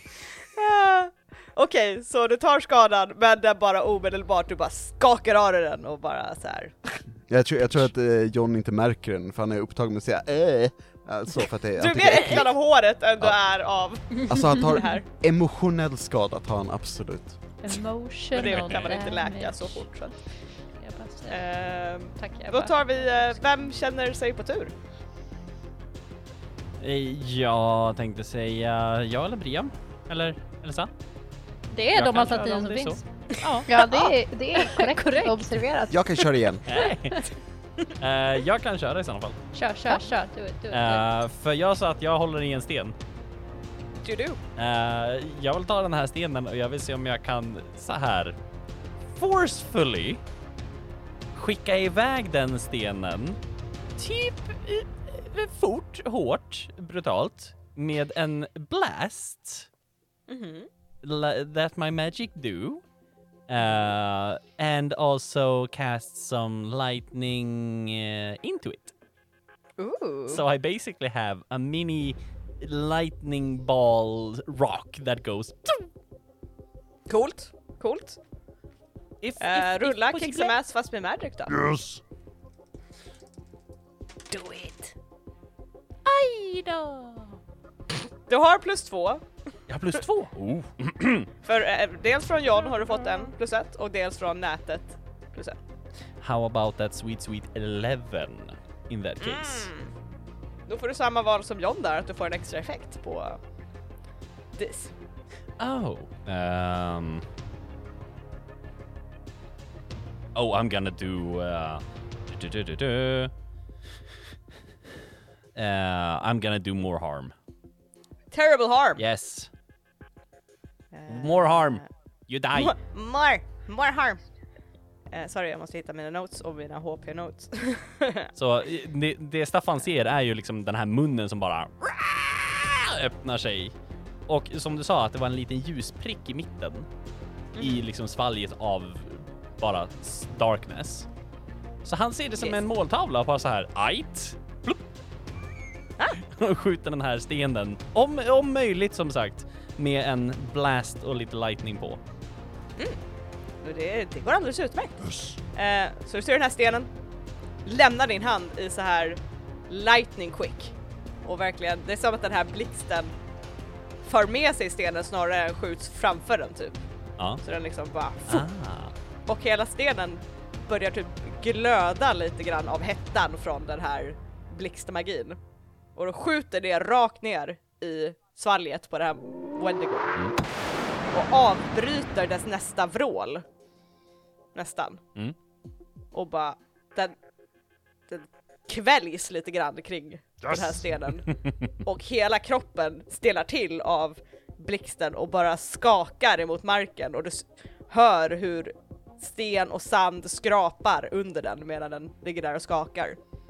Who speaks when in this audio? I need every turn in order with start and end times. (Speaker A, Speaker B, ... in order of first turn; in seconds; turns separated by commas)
Speaker A: 0.3-7.0, Speaker B: 7.3-12.6, Speaker A: 11.8-15.0, Speaker B: 14.1-17.4, Speaker C: 14.2-14.8, Speaker C: 17.6-23.4, Speaker A: 18.3-20.4, Speaker D: 18.4-19.0, Speaker A: 21.3-24.7, Speaker D: 26.8-30.9, Speaker C: 31.7-34.0, Speaker D: 31.9-33.4, Speaker E: 33.7-36.3, Speaker A: 33.8-34.1, Speaker C: 34.5-35.5, Speaker B: 35.9-36.8, Speaker D: 36.7-37.3, Speaker D: 38.0-39.4, Speaker C: 39.5-41.1, Speaker D: 40.7-43.0, Speaker A: 44.0-44.4, Speaker D: 44.6-48.4, Speaker D: 49.1-50.2, Speaker D: 51.3-53.4, Speaker D: 54.0-59.7, Speaker A: 60.3-60.7, Speaker D: 61.0-62.8, Speaker D: 63.5-68.9, Speaker A: 69.8-70.4, Speaker D: 70.3-75.9, Speaker A: 77.1-78.2, Speaker D: 79.2-80.5, Speaker A: 79.4-81.5, Speaker D: 81.5-82.0, Speaker D: 86.1-87.4, Speaker A: 88.3-89.2, Speaker D: 89.7-91.3, Speaker A: 91.4-95.6, Speaker D: 96.2-99.7, Speaker A: 99.2-99.9, Speaker A: 100.7-103.4, Speaker A: 104.5-104.9, Speaker D: 105.6-107.2, Speaker D: 110.3-113.3, Speaker D: 115.5-117.3, Speaker A: 118.3-119.0, Speaker D: 119.0-119.5, Speaker A: 120.9-121.9, Speaker D: 121.1-122.8, Speaker A: 122.5-124.2, Speaker A: 125.1-128.3, Speaker D: 128.4-133.8, Speaker D: 134.3-136.9, Speaker A: 137.6-137.8, Speaker D: 137.6-141.1, Speaker D: 141.8-144.8, Speaker D: 146.1-152.0, Speaker A: 153.6-156.9, Speaker D: 155.0-155.4, Speaker A: 157.7-163.1, Speaker A: 164.0-166.8, Speaker A: 167.4-168.5, Speaker D: 168.3-168.9, Speaker A: 169.3-175.4, Speaker A: 175.9-180.2, Speaker A: 181.1-183.4, Speaker A: 184.6-185.0, Speaker A: 186.1-187.2, Speaker A: 188.1-203.2, Speaker D: 190.5-191.7